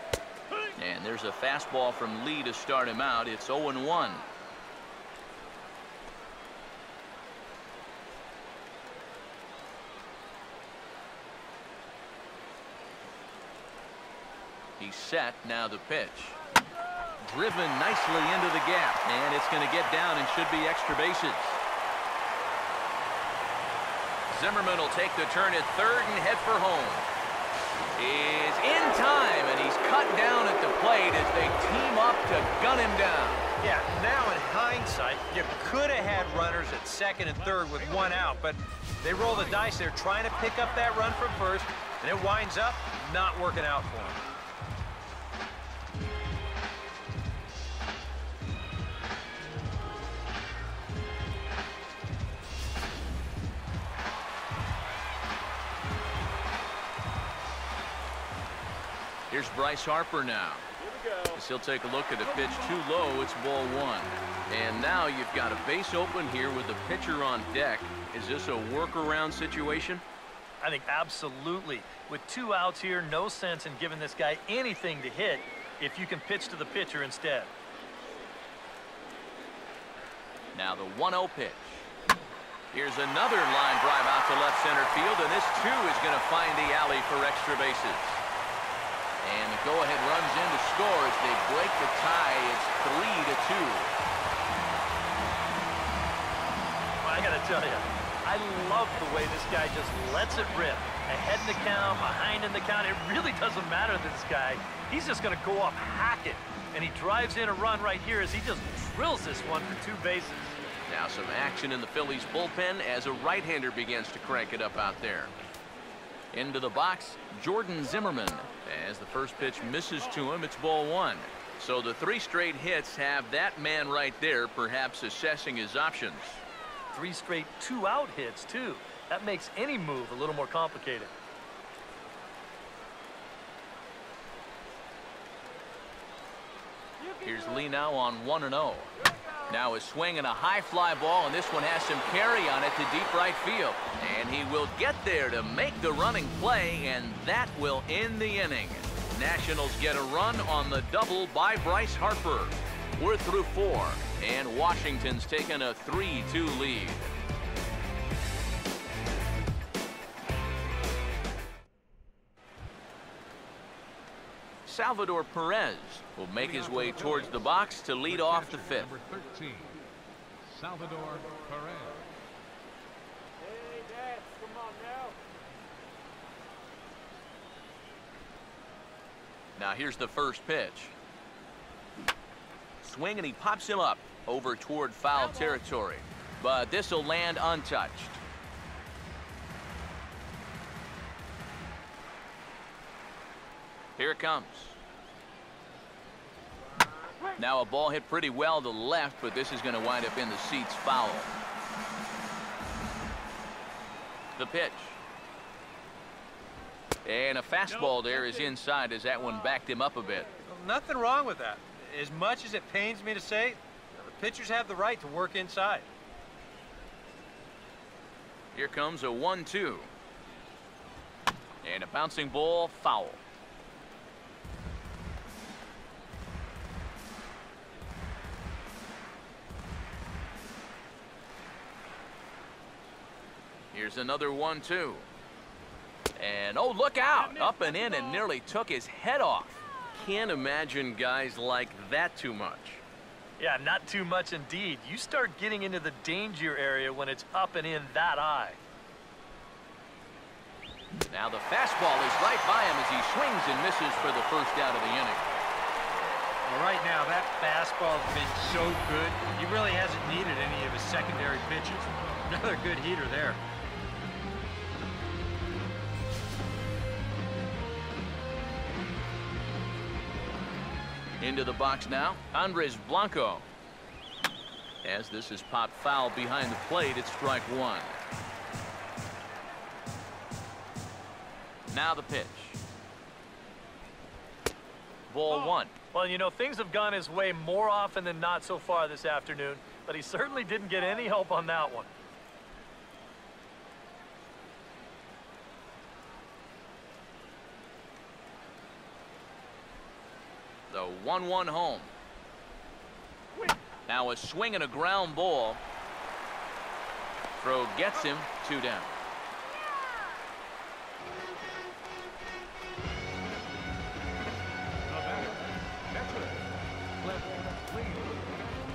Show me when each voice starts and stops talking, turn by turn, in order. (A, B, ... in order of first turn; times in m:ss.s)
0:00.8-0:04.3 A
0:14.8-0:16.4 A
0:17.2-0:21.6 A
0:24.3-0:27.1 A
0:28.0-0:33.5 A
0:33.6-0:44.2 B
0:37.2-0:38.4 C
0:59.3-1:00.7 A
1:00.8-1:01.4 D
1:01.3-1:10.0 A
1:02.2-1:02.8 D
1:10.6-1:17.5 E
1:20.5-1:21.9 A
1:22.7-1:28.2 A
1:29.2-1:33.9 A
1:37.0-1:50.6 E
1:50.9-1:55.3 A
1:56.3-2:06.4 A
1:59.4-2:00.2 D
2:06.9-2:11.1 E
2:17.0-2:17.3 D
2:17.2-2:19.0 A
2:19.0-2:19.5 D
2:19.5-2:37.1 A
2:44.6-2:48.9 A
2:46.4-2:47.5 C
2:48.0-2:49.8 C
2:50.4-2:52.1 C
2:53.4-2:55.2 D
2:59.6-3:00.9 A
3:02.8-3:08.2 A
3:05.1-3:05.6 D
3:14.0-3:14.8 A
3:17.4-3:21.3 A
3:24.4-3:25.0 A
3:27.0-3:30.3 A
3:27.7-3:28.6 D
3:30.5-3:35.9 B
3:38.5-3:39.9 A
3:41.6-3:43.2 A
3:53.7-3:55.1 A
3:56.2-4:02.8 A
3:57.1-3:58.2 D
4:03.4-4:08.6 E
4:11.1-4:15.3 A
4:16.5-4:23.4 B
4:31.2-4:33.5 A
4:34.8-4:38.0 A
4:41.7-4:42.6 A
4:45.1-4:45.7 A
4:45.3-4:45.6 D
4:45.9-4:51.9 E
5:00.7-5:01.9 A
5:03.9-5:05.6 A
5:07.4-5:08.9 A
5:14.8-5:18.3 C